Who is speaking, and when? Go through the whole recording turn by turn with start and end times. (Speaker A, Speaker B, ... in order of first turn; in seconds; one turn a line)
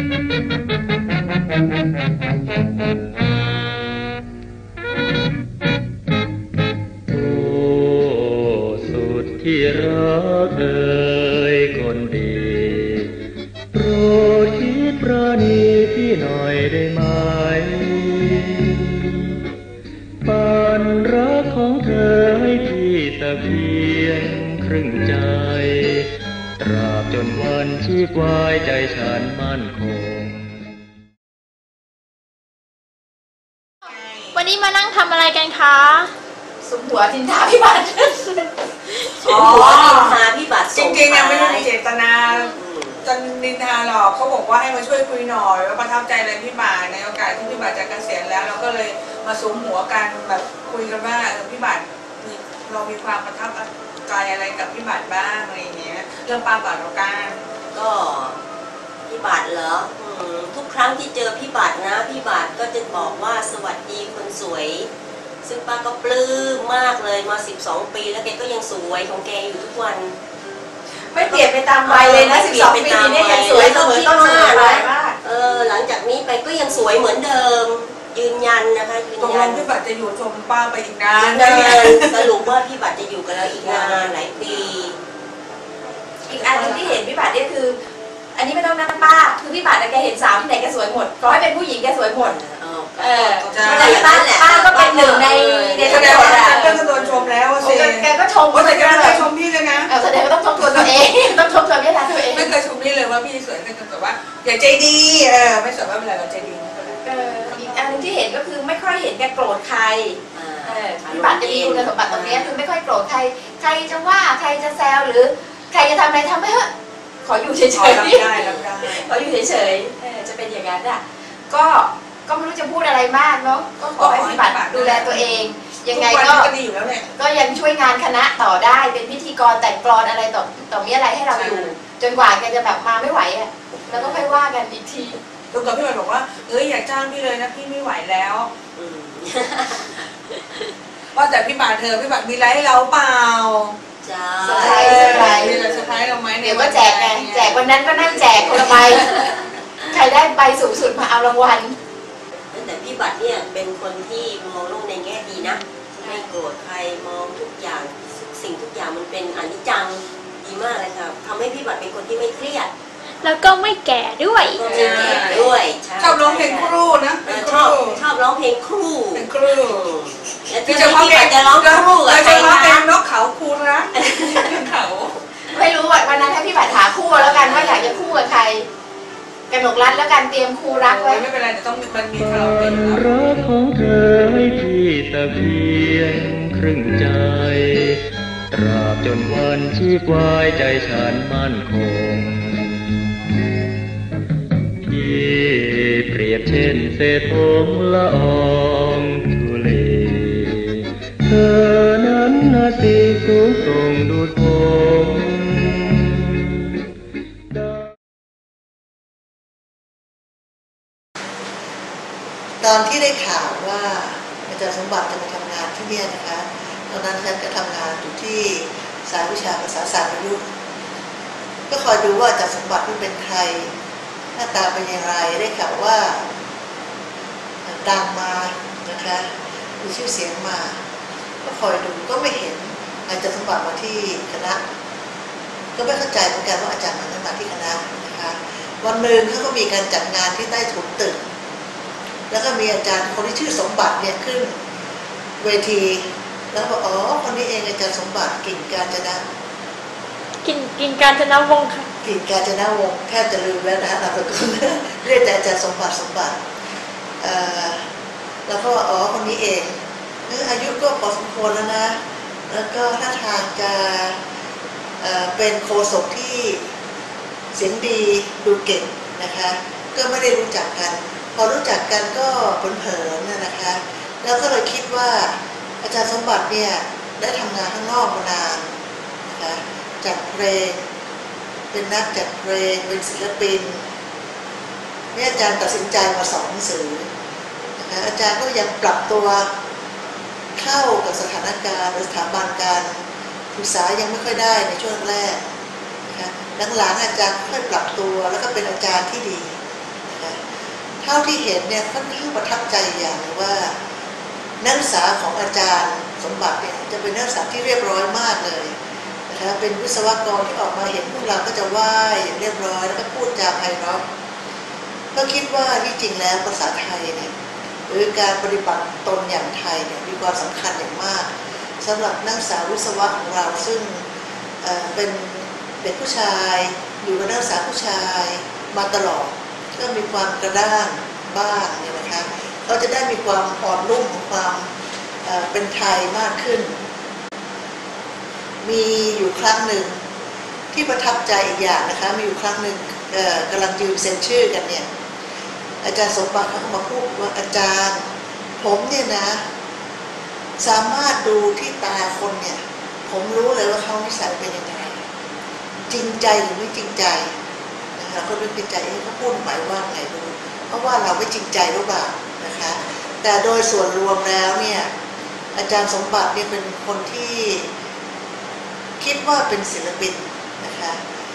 Speaker A: 7.1-13.1
Speaker A: 13.7-19.0
Speaker A: 20.2-30.6
Speaker B: 34.3-36.1
Speaker C: 36.6-38.5
Speaker D: 39.2-41.7
Speaker E: 39.2-40.2
Speaker E: 40.7-42.5
Speaker D: 42.3-43.0
Speaker E: 43.0-57.4
Speaker D: 57.7-58.4
Speaker D: 59.1-64.9
Speaker D: 65.4-70.1
Speaker C: 71.1-75.2
Speaker D: 71.2-79.7
Speaker E: 79.2-82.4
Speaker D: 81.2-85.0
Speaker E: 83.7-84.1
Speaker C: 86.3-87.8
Speaker D: 86.3-87.0
Speaker C: 88.3-92.4
Speaker D: 92.2-97.3
Speaker C: 93.0-99.3
Speaker E: 93.4-94.0
Speaker E: 94.8-99.9
Speaker C: 99.8-102.5
Speaker E: 100.5-101.0
Speaker E: 102.2-107.7
Speaker C: 107.0-116.7
Speaker D: 110.3-112.5
Speaker C: 117.2-126.5
Speaker E: 117.7-119.1
Speaker D: 118.3-118.9
Speaker E: 124.0-127.1
Speaker C: 127.2-135.2
Speaker E: 131.3-131.7
Speaker D: 133.9-134.3
Speaker E: 135.5-138.5
Speaker D: 138.8-140.7
Speaker E: 141.1-143.8
Speaker D: 144.0-146.2
Speaker C: 144.4-145.7
Speaker E: 144.5-147.6
Speaker C: 146.3-149.3
Speaker D: 147.8-149.4
Speaker C: 149.9-151.8
Speaker D: 152.5-162.7
Speaker B: 163.2-164.6
Speaker D: 164.4-172.9
Speaker E: 164.6-168.0
Speaker E: 169.1-169.9
Speaker E: 170.6-175.1
Speaker D: 174.1-174.5
Speaker C: 175.5-178.7
Speaker D: 177.1-178.0
Speaker C: 179.5-181.3
Speaker E: 180.8-183.1
Speaker A: 182.1-188.0
Speaker A: 188.5-192.8
Speaker A: 194.8-205.8
Speaker F: 212.6-220.4
Speaker F: 221.7-223.7
Speaker F: 224.3-226.2
Speaker F: 227.6-230.8
Speaker F: 231.4-234.7
Speaker F: 235.8-241.2
Speaker F: 242.3-244.6
Speaker F: 245.4-249.2
Speaker B: 250.4-251.9
Speaker F: 252.0-256.4
Speaker F: 257.2-257.9
Speaker F: 258.5-259.7
Speaker F: 260.3-262.0
Speaker F: 262.5-264.2
Speaker F: 265.0-266.6
Speaker F: 267.5-278.7
Speaker F: 279.3-280.9
Speaker F: 281.7-283.8
Speaker F: 285.1-287.1
Speaker F: 287.8-289.5
Speaker F: 290.6-293.0
Speaker F: 293.5-295.4
Speaker F: 296.1-299.6
Speaker F: 300.1-300.4
Speaker F: 301.0-303.8
Speaker F: 304.6-308.7
Speaker F: 309.3-314.0
Speaker F: 315.1-317.3
Speaker F: 317.9-324.0
Speaker F: 324.6-334.7
Speaker F: 335.2-336.8
Speaker F: 338.6-340.0
Speaker F: 340.7-344.9
Speaker F: 345.8-348.1
Speaker F: 348.6-349.4
Speaker F: 350.6-355.0
Speaker F: 355.9-357.3
Speaker F: 357.9-364.9
Speaker F: 365.5-367.7
Speaker F: 369.0-371.0